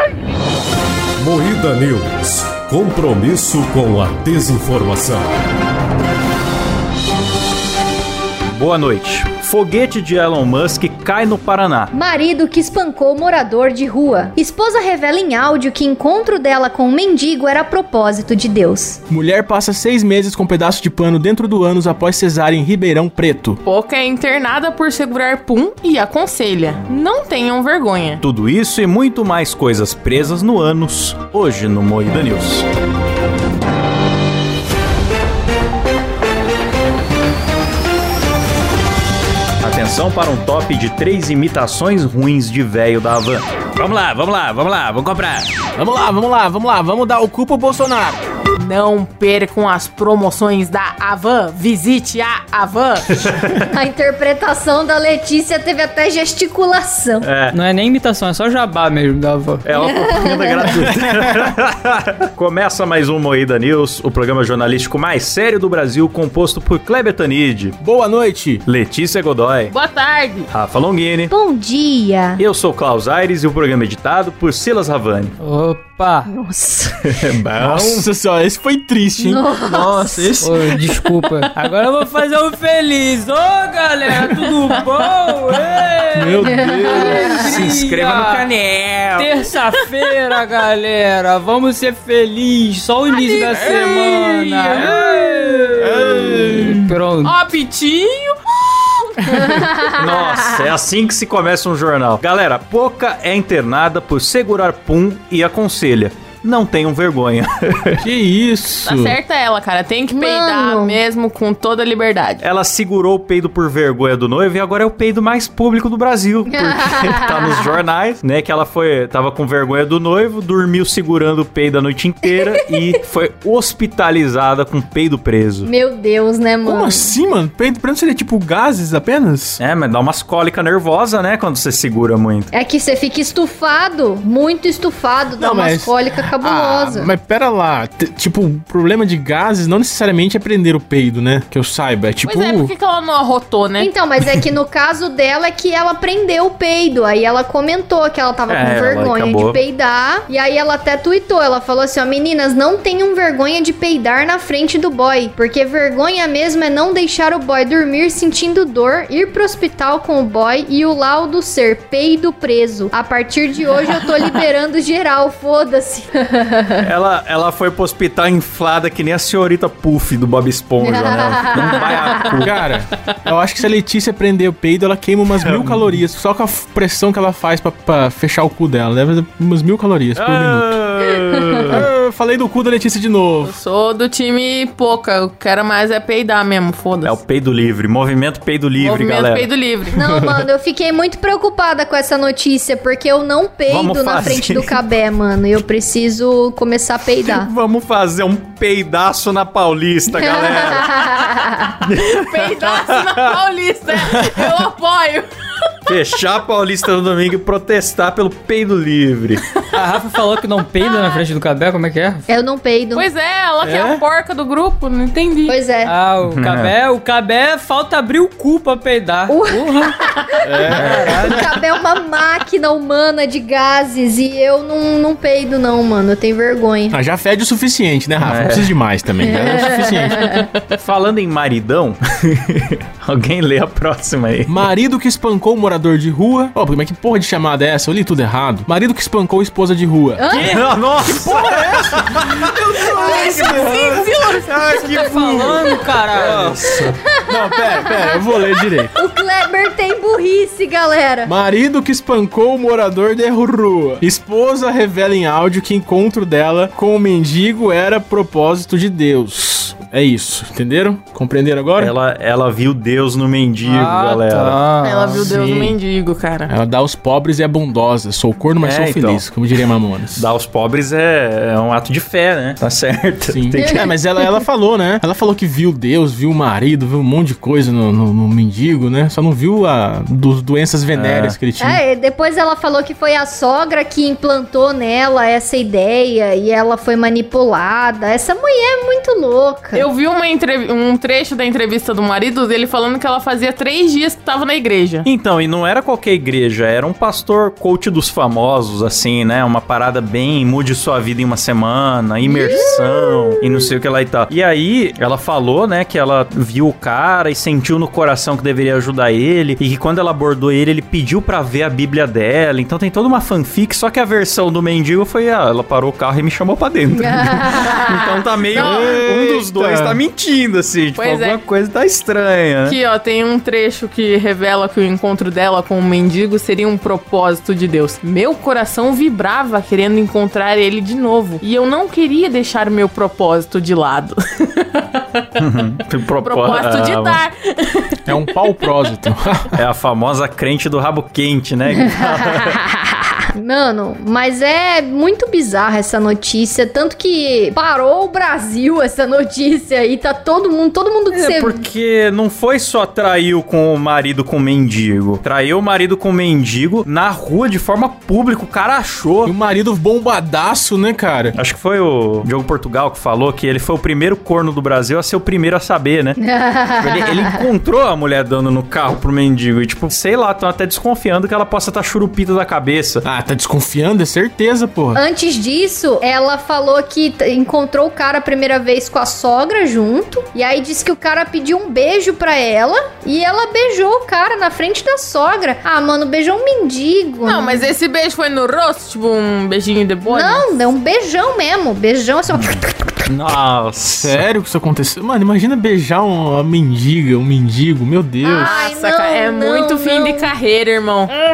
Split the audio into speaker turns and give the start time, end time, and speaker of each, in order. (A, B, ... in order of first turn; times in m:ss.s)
0:01.2-0:05.2 A
0:08.5-0:11.9 B
0:11.9-0:19.0 C
0:19.1-0:23.6 D
0:23.6-0:28.2 E
0:28.2-0:32.7 B
0:39.6-0:45.5 B
0:45.8-0:48.2 D
0:48.6-0:53.1 E
0:53.2-0:53.6 B
0:53.6-0:57.3 C
0:57.2-0:57.6 B
0:57.5-0:59.7 F
0:59.6-1:07.8 B
0:59.8-1:00.7 C
1:00.8-1:01.4 D
1:07.8-1:08.6 D
1:08.6-1:09.7 B
1:09.7-1:10.5 E
1:10.5-1:11.3 B
1:11.3-1:12.4 C
1:12.4-1:15.4 B
1:15.4-1:16.3 F
1:16.3-1:17.1 C
1:17.0-1:18.1 B
1:17.6-1:21.0 D
1:19.2-1:20.5 C
1:20.4-1:28.5 F
1:26.1-1:27.7 D
1:26.4-1:27.6 C
1:27.3-1:29.3 B
1:29.2-1:37.3 F
1:33.1-1:34.9 E
1:33.4-1:36.9 D
1:37.2-1:39.9 E
1:39.3-1:39.9 C
1:39.9-1:48.1 B
1:48.0-1:49.2 D
1:48.9-1:52.4 E
1:50.1-1:51.0 C
1:52.4-2:05.7 B
1:56.5-1:57.7 C
2:05.6-2:07.1 C
2:06.6-2:09.6 D
2:09.6-2:12.5 B
2:12.5-2:17.1 C
2:15.4-2:22.7 D
2:22.2-2:23.9 E
2:23.8-2:46.8 C
2:28.5-2:29.6 B
2:46.8-2:52.6 B
2:50.8-2:52.4 C
2:52.4-3:00.8 D
2:55.4-2:56.0 B
3:00.2-3:01.9 B
3:01.7-3:03.5 D
3:03.4-3:07.2 E
3:07.0-3:09.5 B
3:08.8-3:10.0 E
3:09.9-3:17.5 C
3:10.0-3:10.4 D
3:13.7-3:14.8 B
3:17.2-3:21.0 B
3:20.1-3:21.7 C
3:21.8-3:23.3 B
3:22.0-3:25.3 E
3:23.9-3:24.4 B
3:25.9-3:29.6 B
3:29.7-3:32.3 F
3:32.3-3:33.1 C
3:32.9-3:35.6 E
3:33.6-3:34.0 D
3:35.5-3:35.9 C
3:35.8-3:39.9 F
3:36.2-3:36.7 B
3:39.3-3:47.0 C
3:40.4-3:41.5 D
3:40.7-3:41.4 F
3:40.7-3:41.0 B
3:46.9-3:50.2 D
3:48.2-3:48.8 B
3:49.2-3:50.4 C
3:50.2-3:50.5 E
3:50.7-3:54.7 B
3:54.5-4:00.2 D
4:00.2-4:00.6 C
4:00.3-4:00.6 F
4:00.4-4:02.4 B
4:01.0-4:04.0 D
4:03.0-4:07.0 B
4:03.0-4:04.4 E
4:03.2-4:03.8 C
4:04.6-4:06.6 F
4:06.7-4:08.2 C
4:07.3-4:08.9 D
4:08.9-4:11.3 C
4:11.2-4:21.9 D
4:21.8-4:24.6 B
4:23.6-4:25.3 F
4:24.8-4:26.5 E
4:25.1-4:25.8 D
4:26.5-4:30.3 D
4:28.6-4:29.2 B
4:30.2-4:33.5 B
4:33.3-4:41.8 D
4:33.5-4:34.4 C
4:40.9-4:41.4 B
4:41.6-4:49.9 C
4:49.7-4:55.1 E
4:55.0-5:22.8 B
5:02.2-5:03.2 C
5:17.0-5:18.2 C
5:18.5-5:18.9 E
5:18.5-5:20.0 D
5:21.0-5:21.4 E
5:22.6-5:35.2 E
5:35.4-5:37.2 B
5:36.2-5:37.9 E
5:38.1-5:39.6 D
5:39.6-5:42.6 B
5:41.8-5:42.6 C
5:43.3-5:51.6 C
5:51.1-5:59.3 B
5:59.2-6:01.4 D
6:01.3-6:06.2 B
6:06.2-6:07.4 C
6:06.8-6:13.0 B
6:13.0-6:15.0 D
6:14.9-6:27.7 C
6:27.2-6:30.6 E
6:30.1-6:33.1 C
6:32.3-6:34.2 B
6:34.0-6:38.6 D
6:38.2-6:40.3 C
6:38.4-6:41.1 E